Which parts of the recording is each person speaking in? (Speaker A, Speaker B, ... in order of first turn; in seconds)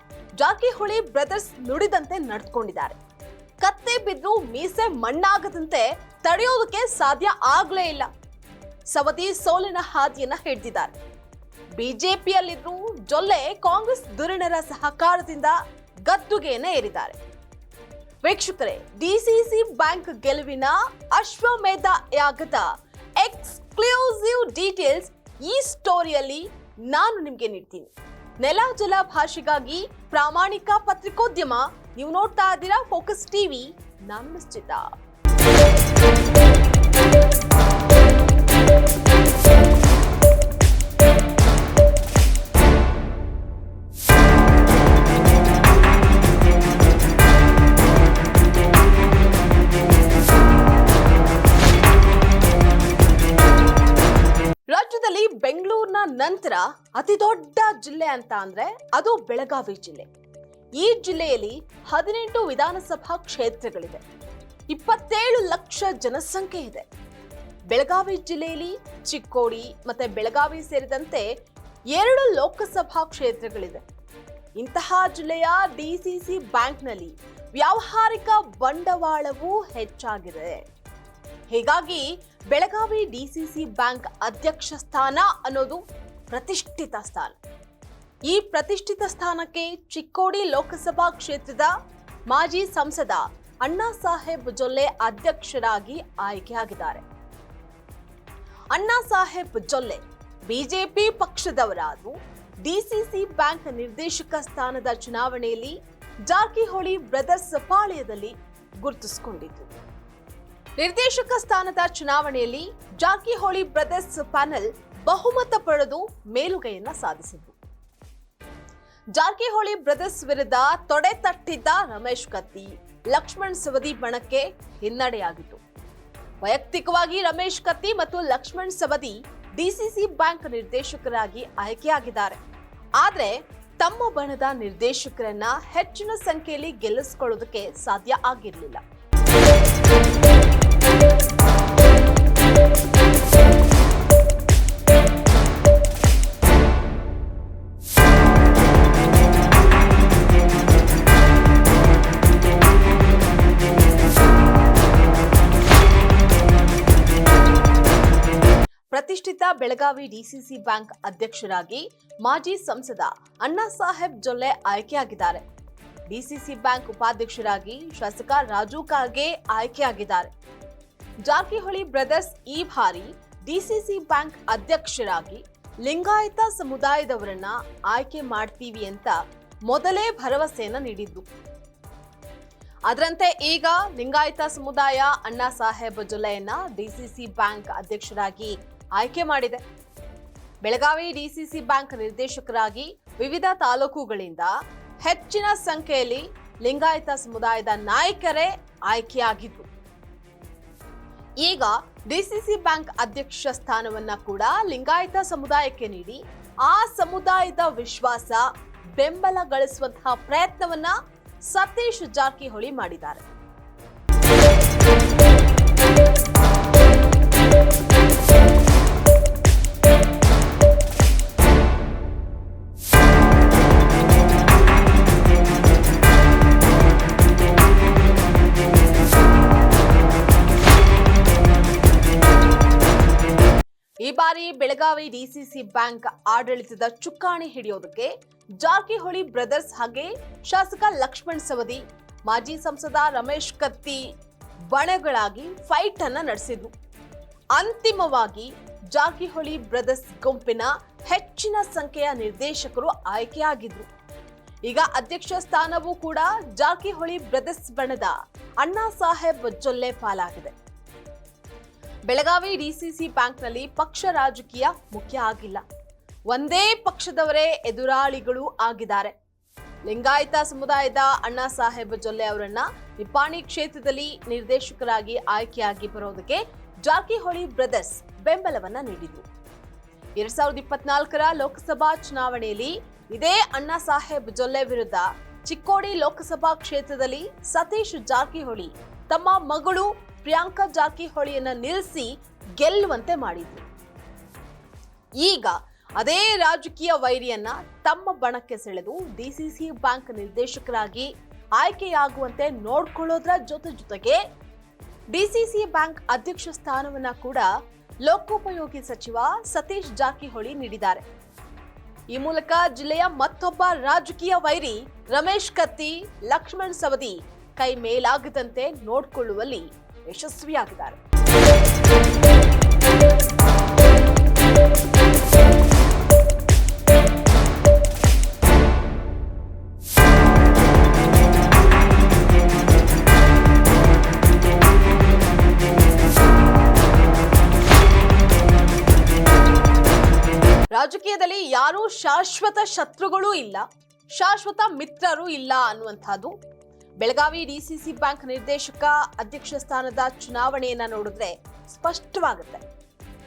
Speaker A: 0.4-3.0, 3.6-8.1, 8.9-11.0, 11.8-17.2, 18.2-34.9, 54.7-60.1, 60.8-64.0, 64.7-66.8, 67.7-71.3, 71.9-73.8, 74.6-80.6, 81.5-87.3, 88.3-91.7, 92.3-97.0, 98.7-109.7, 110.8-117.6, 119.1-125.6, 126.4-132.4, 133.0-138.8, 158.9-165.4, 166.1-170.3, 171.2-181.3, 182.9-189.6, 190.6-194.5, 195.0-199.7, 201.4-208.4, 209.0-210.9, 211.5-213.2, 234.0-244.1, 244.7-246.7, 247.6-253.9, 254.7-260.6, 262.1-265.6, 266.3-269.1, 269.9-279.2, 280.2-293.6, 295.2-304.2, 305.1-307.5, 308.0-311.0, 312.1-321.0, 340.7-346.4, 347.0-352.6